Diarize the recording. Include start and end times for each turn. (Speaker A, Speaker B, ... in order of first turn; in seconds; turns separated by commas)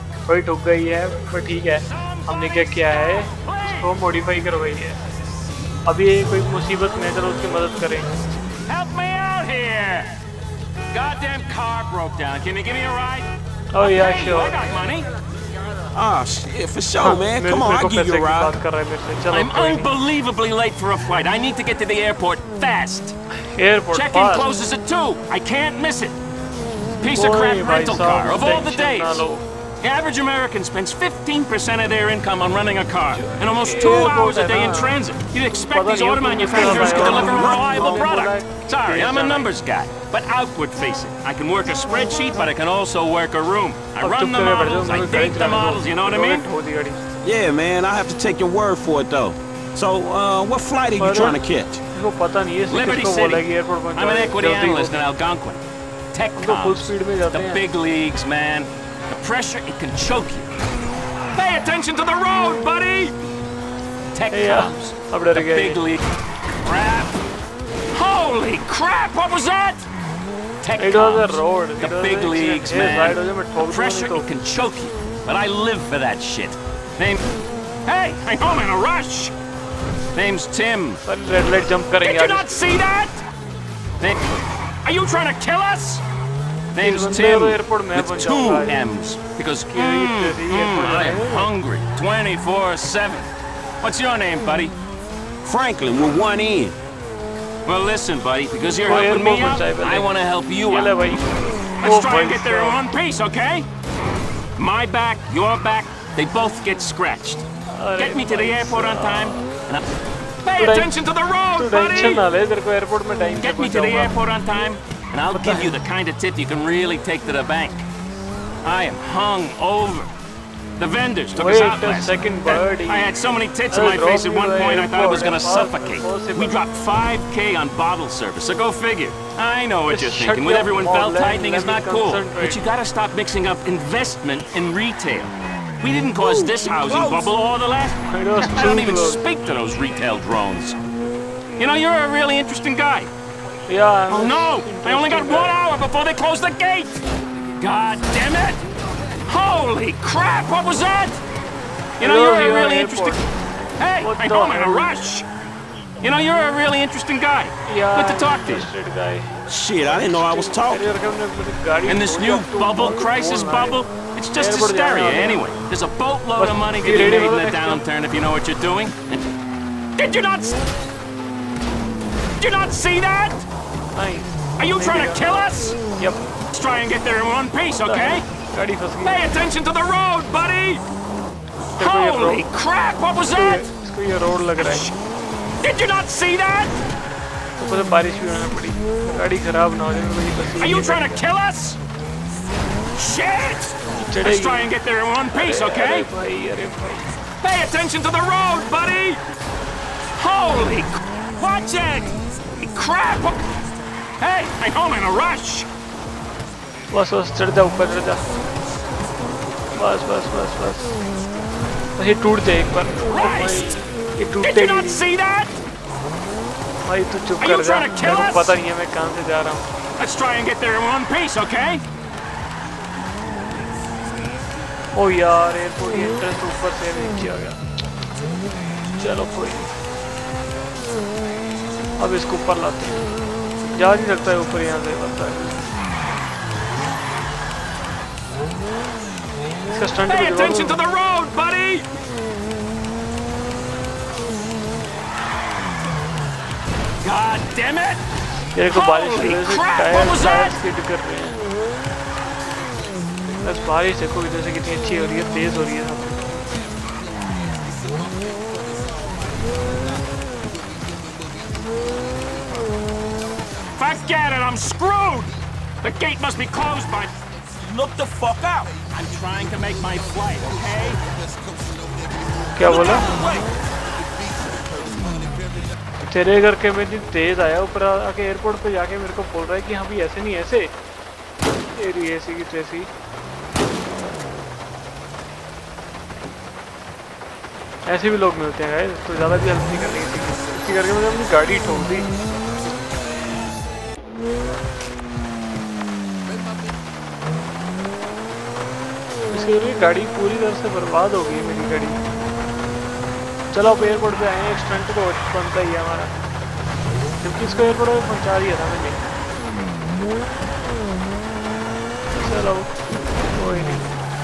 Speaker A: 0.2-5.0, Speaker B: 1.8-3.9, Speaker A: 5.8-8.1, Speaker B: 8.7-10.2, Speaker B: 10.9-15.1, Speaker A: 13.7-14.6, Speaker C: 15.9-18.6, Speaker A: 17.0-19.9, Speaker B: 19.3-23.1, Speaker A: 23.5-24.5, Speaker B: 23.9-26.2, Speaker B: 27.0-29.2, Speaker A: 27.1-29.4, Speaker B: 29.8-46.4, Speaker A: 33.3-35.0, Speaker A: 35.6-39.5, Speaker C: 36.5-38.0, Speaker A: 44.0-47.0, Speaker C: 47.2-51.8, Speaker A: 51.0-51.4, Speaker A: 51.9-55.0, Speaker B: 52.7-55.6, Speaker B: 56.1-60.5, Speaker A: 56.4-57.6, Speaker B: 61.3-63.1, Speaker B: 64.1-66.0, Speaker A: 64.3-65.8, Speaker B: 66.6-67.2, Speaker B: 67.9-69.8, Speaker B: 70.6-77.2, Speaker A: 70.8-74.3, Speaker B: 77.8-79.3, Speaker B: 80.1-81.0, Speaker A: 81.0-82.8, Speaker B: 82.0-83.2, Speaker B: 84.8-86.0, Speaker B: 86.7-93.3, Speaker A: 86.8-88.8, Speaker A: 89.7-91.5, Speaker B: 93.8-94.7, Speaker C: 95.4-96.7, Speaker B: 97.7-101.2, Speaker A: 98.8-100.1, Speaker A: 100.7-102.8, Speaker B: 101.8-103.7, Speaker B: 104.6-107.4, Speaker A: 107.7-109.5, Speaker B: 108.0-109.8, Speaker B: 110.4-112.2, Speaker A: 110.6-111.0, Speaker A: 111.5-114.1, Speaker B: 113.4-117.8, Speaker A: 115.3-115.7, Speaker B: 118.6-120.1, Speaker B: 120.8-140.8, Speaker A: 121.3-123.2, Speaker A: 123.7-126.6, Speaker A: 129.8-132.7, Speaker C: 136.2-137.3, Speaker A: 138.1-139.2, Speaker B: 141.6-143.1, Speaker A: 143.7-145.6, Speaker B: 144.1-147.0, Speaker B: 147.6-148.6, Speaker B: 149.2-151.2, Speaker B: 152.0-153.2, Speaker A: 152.0-153.3, Speaker B: 153.8-155.2, Speaker A: 154.0-155.0, Speaker B: 156.0-158.7, Speaker A: 157.7-163.8, Speaker C: 159.5-160.9, Speaker B: 161.8-169.2, Speaker A: 164.3-165.5, Speaker A: 166.3-167.8, Speaker B: 170.0-170.6, Speaker B: 172.4-173.4, Speaker A: 173.9-176.2, Speaker B: 174.6-175.8, Speaker B: 176.5-178.2, Speaker A: 177.8-179.3, Speaker B: 179.0-180.8, Speaker A: 181.8-182.5, Speaker B: 181.8-183.7, Speaker A: 183.2-184.9, Speaker B: 184.6-184.9, Speaker B: 185.6-186.8, Speaker A: 187.6-191.2, Speaker B: 190.6-191.8, Speaker B: 192.9-196.1, Speaker A: 193.9-194.7, Speaker A: 195.3-197.1, Speaker B: 197.4-199.2, Speaker B: 200.2-203.4, Speaker B: 204.2-205.7, Speaker A: 206.9-208.2, Speaker A: 209.7-211.0, Speaker A: 212.0-215.0, Speaker B: 213.1-213.8, Speaker B: 214.4-215.6, Speaker A: 216.8-219.7, Speaker B: 217.4-218.6, Speaker B: 220.0-221.8, Speaker A: 224.9-227.6, Speaker A: 228.9-229.7, Speaker A: 232.0-233.0, Speaker A: 233.7-235.5, Speaker A: 239.7-240.8, Speaker B: 240.0-241.8, Speaker B: 247.0-248.0, Speaker A: 248.5-251.4, Speaker B: 248.7-250.6, Speaker A: 253.4-256.2, Speaker B: 263.8-267.1, Speaker C: 267.5-268.8, Speaker B: 268.9-271.0, Speaker A: 272.6-273.1, Speaker C: 272.6-273.5, Speaker B: 272.7-273.2, Speaker A: 276.0-280.7, Speaker A: 281.7-282.9, Speaker A: 287.9-292.1, Speaker A: 299.3-302.0, Speaker A: 303.5-306.1, Speaker A: 307.2-309.0, Speaker A: 312.2-312.7, Speaker A: 313.3-313.9